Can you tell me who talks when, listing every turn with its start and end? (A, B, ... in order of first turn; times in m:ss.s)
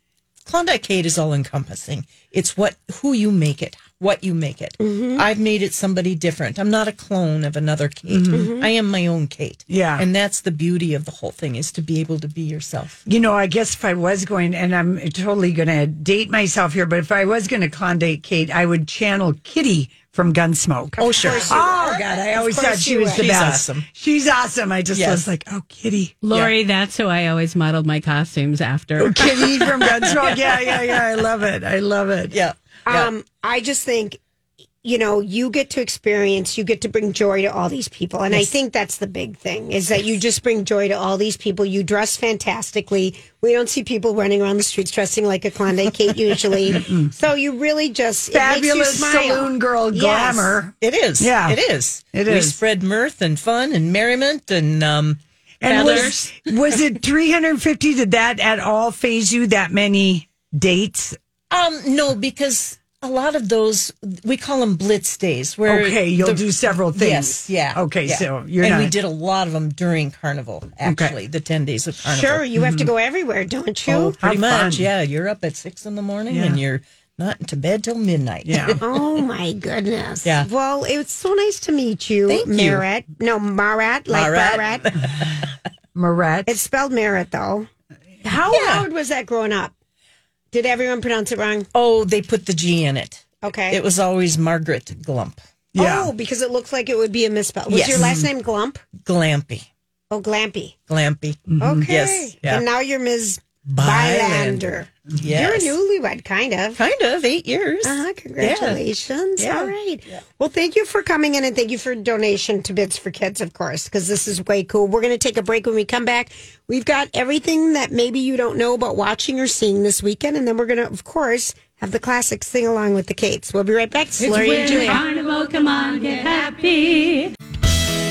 0:00.5-0:13.0 A
0:04.8-0:05.2 B
0:08.1-0:08.5 C
0:08.3-0:08.7 B
0:09.7-0:10.1 C
0:13.1-0:26.2 C
0:21.0-0:21.6 A
0:21.0-0:23.3 B
0:23.2-0:23.9 A
0:24.9-0:25.2 A
0:26.2-0:29.3 D
0:29.0-0:32.4 C
0:29.6-0:31.0 A
0:32.3-0:33.1 A
0:32.9-0:34.2 B
0:34.8-0:50.6 B
0:46.7-0:47.1 C
0:48.3-0:51.6 C
0:50.8-0:56.5 A
0:52.1-0:52.6 C
0:55.6-1:01.2 C
1:01.5-1:12.4 A
1:05.7-1:09.0 C
1:10.8-1:11.2 C
1:12.1-1:14.2 B
1:12.6-1:12.9 C
1:13.9-1:14.9 C
1:14.1-1:19.0 A
1:16.3-1:16.6 C
1:18.4-1:18.8 C
1:18.8-1:24.9 B
1:22.3-1:22.8 A
1:24.1-1:25.5 A
1:26.0-1:26.6 C
1:26.5-1:27.7 B
1:28.2-1:29.7 B
1:28.5-1:28.9 A
1:30.5-1:31.7 B
1:31.7-1:35.4 A
1:33.4-1:33.8 B
1:35.7-1:36.1 C
1:35.8-1:38.8 B
1:37.7-1:38.2 A
1:39.0-1:39.7 A
1:40.1-1:40.8 B
1:40.9-1:42.6 A
1:41.5-1:41.9 C
1:41.6-1:46.8 B
1:43.7-1:44.6 A
1:45.2-1:45.8 A
1:46.8-1:48.8 A
1:47.8-2:05.0 B
1:49.4-1:49.7 A
2:04.2-2:07.3 D